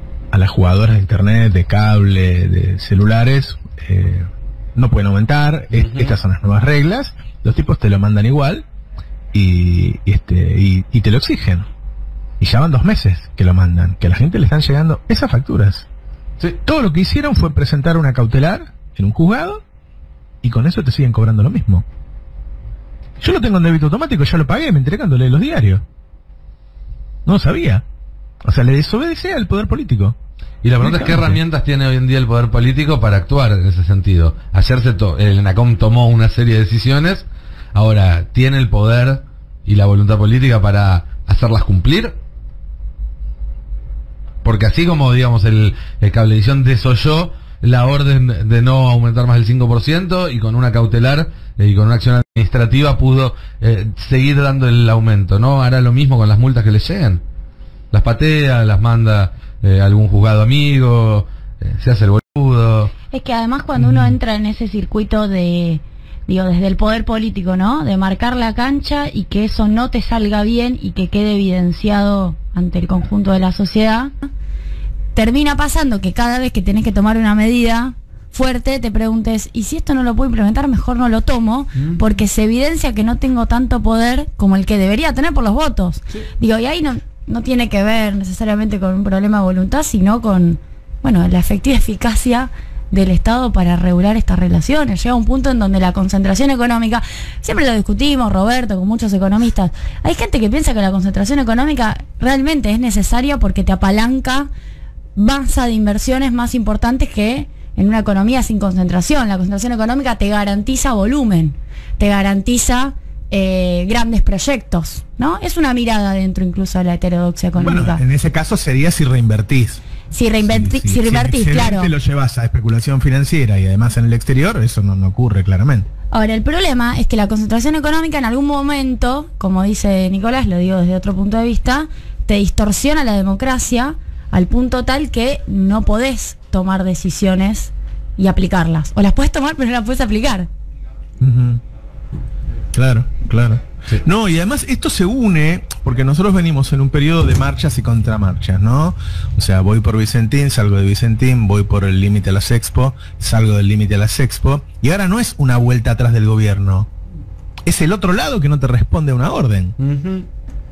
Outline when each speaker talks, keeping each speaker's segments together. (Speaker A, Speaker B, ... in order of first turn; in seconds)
Speaker A: 0.3-8.7, 9.3-11.7, 12.4-15.9, 16.6-19.6, 20.4-21.9, 23.2-25.8, 27.2-27.8, 28.4-30.2, 30.8-31.4, 63.8-64.1, 117.5-119.8, 120.4-125.9, 141.2-141.6, 142.7-156.9, 157.7-159.8
Speaker B: 5.7-6.1, 30.6-42.2, 44.4-57.2, 57.9-62.9, 159.8-160.3
Speaker C: 63.1-74.3, 75.1-104.5, 105.2-118.0, 120.1-121.9, 126.1-140.5